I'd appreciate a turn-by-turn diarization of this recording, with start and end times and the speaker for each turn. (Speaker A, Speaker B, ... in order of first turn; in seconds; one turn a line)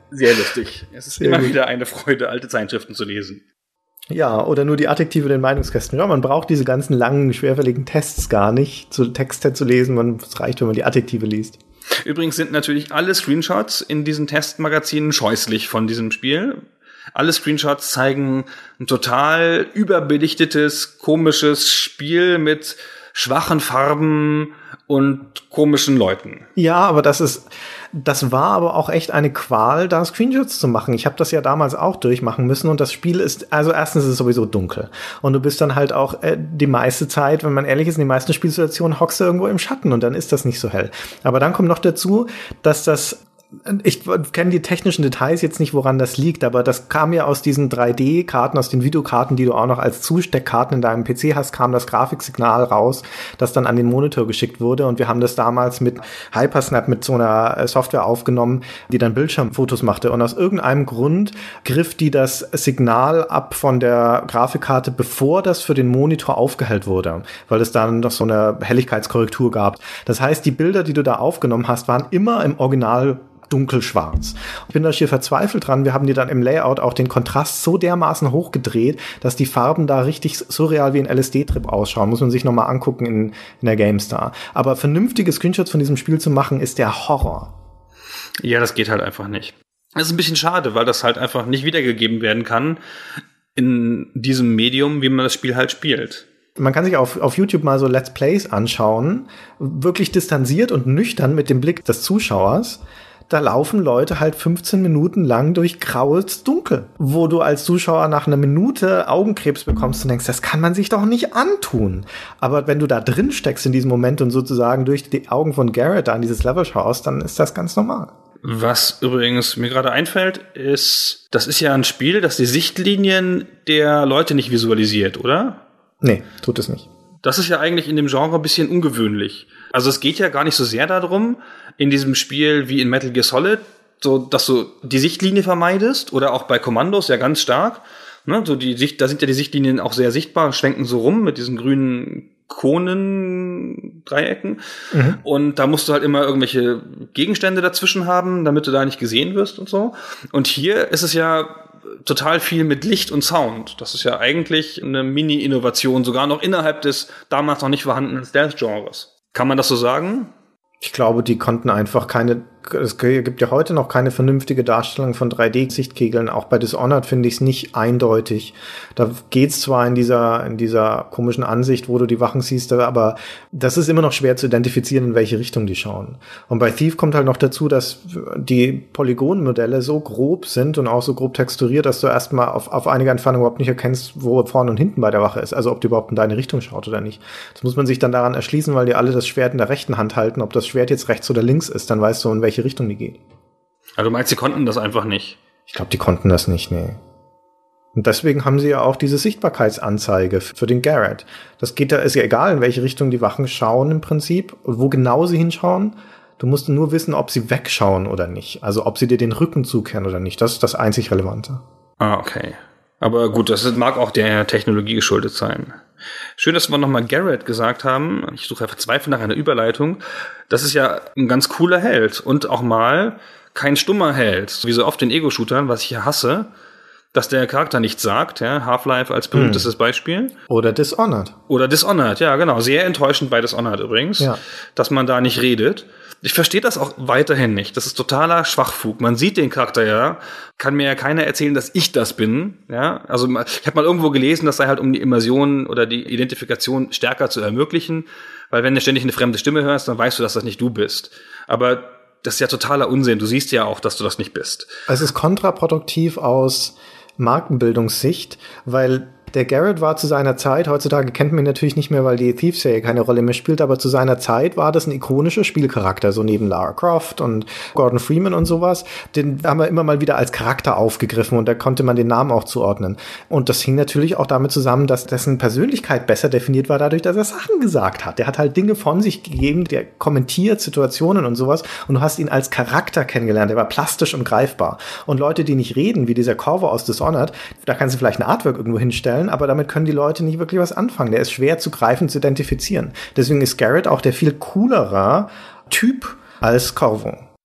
Speaker A: 0.1-3.4
Speaker B: 1.2-1.5
Speaker B: 4.1-11.6
Speaker A: 12.0-16.6
Speaker A: 17.1-26.5
Speaker B: 26.6-87.5
Speaker A: 88.4-92.8
Speaker A: 93.5-96.2
Speaker B: 96.6-118.1
Speaker A: 118.4-125.6
Speaker B: 126.0-126.9
Speaker A: 127.2-144.6
Speaker B: 144.9-145.2
Speaker A: 145.2-160.3
Speaker B: 160.8-193.2
Speaker A: 194.0-195.4
Speaker B: 195.7-197.0
Speaker B: 197.9-211.6
Speaker A: 212.0-215.8
Speaker A: 216.4-226.5
Speaker A: 227.1-230.3
Speaker B: 229.3-229.7
Speaker B: 230.5-231.3
Speaker A: 231.5-254.7
Speaker B: 254.9-297.2